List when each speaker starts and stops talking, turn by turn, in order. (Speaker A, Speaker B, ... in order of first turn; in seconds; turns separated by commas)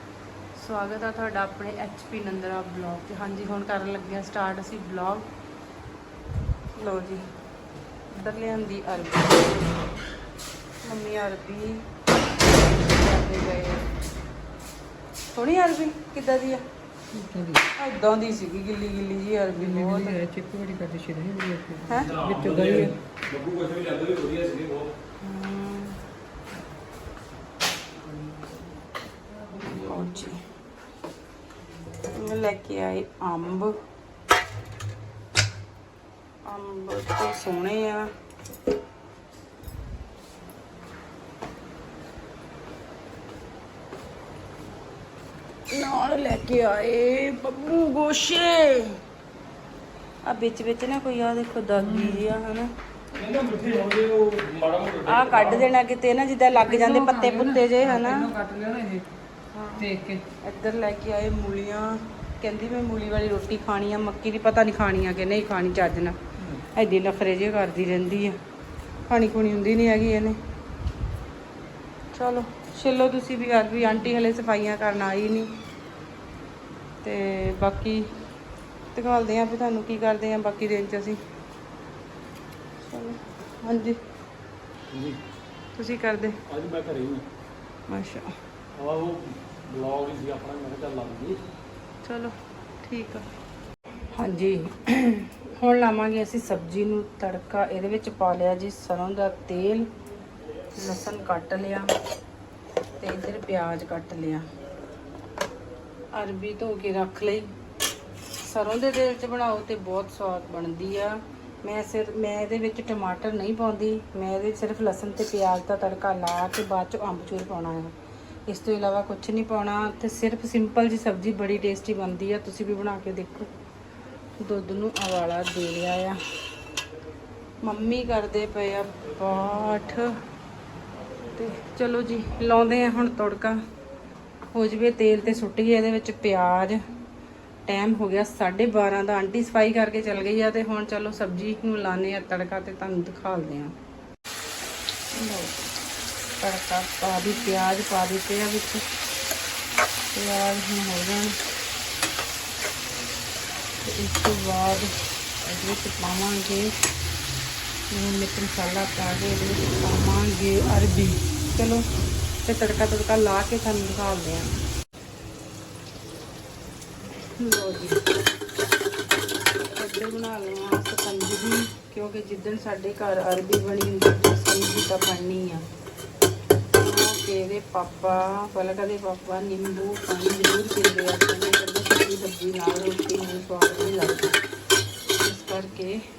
Speaker A: 0.5-5.3, Speaker A: 6.8-7.2, Speaker A: 8.1-9.6, Speaker A: 10.8-11.8, Speaker A: 12.5-13.8, Speaker A: 15.3-16.6, Speaker B: 17.2-17.6, Speaker A: 17.7-20.2, Speaker B: 19.6-22.9, Speaker A: 21.9-22.9, Speaker C: 21.9-24.9, Speaker A: 25.2-26.0, Speaker A: 29.6-30.4, Speaker A: 32.1-33.7, Speaker A: 36.4-38.1, Speaker A: 45.7-48.9, Speaker A: 50.2-52.7, Speaker C: 53.1-55.7, Speaker A: 55.0-58.3, Speaker B: 56.6-59.0, Speaker A: 59.5-59.9, Speaker B: 59.8-60.2, Speaker A: 60.4-66.2, Speaker A: 66.7-68.4, Speaker A: 69.1-70.4, Speaker A: 72.1-75.5, Speaker A: 77.0-78.1, Speaker A: 78.9-81.2, Speaker A: 82.9-84.0, Speaker C: 84.9-85.2, Speaker A: 85.8-86.4, Speaker C: 86.5-87.2, Speaker A: 87.9-88.3, Speaker C: 88.7-91.4, Speaker A: 92.0-92.3, Speaker A: 92.8-93.2, Speaker A: 94.1-99.8, Speaker A: 100.8-101.9, Speaker A: 103.0-104.4, Speaker A: 106.1-107.5, Speaker A: 108.4-117.9, Speaker A: 118.5-123.5, Speaker A: 124.4-126.2, Speaker A: 127.6-130.1, Speaker A: 131.3-133.6, Speaker A: 134.5-136.8, Speaker A: 137.7-143.7, Speaker A: 145.1-145.6, Speaker A: 146.4-148.8, Speaker A: 150.1-151.4, Speaker A: 153.8-154.9, Speaker A: 155.4-156.7, Speaker A: 157.9-161.8, Speaker A: 162.4-164.5, Speaker A: 167.4-168.0, Speaker A: 169.7-175.6, Speaker A: 176.8-184.3, Speaker A: 185.2-186.0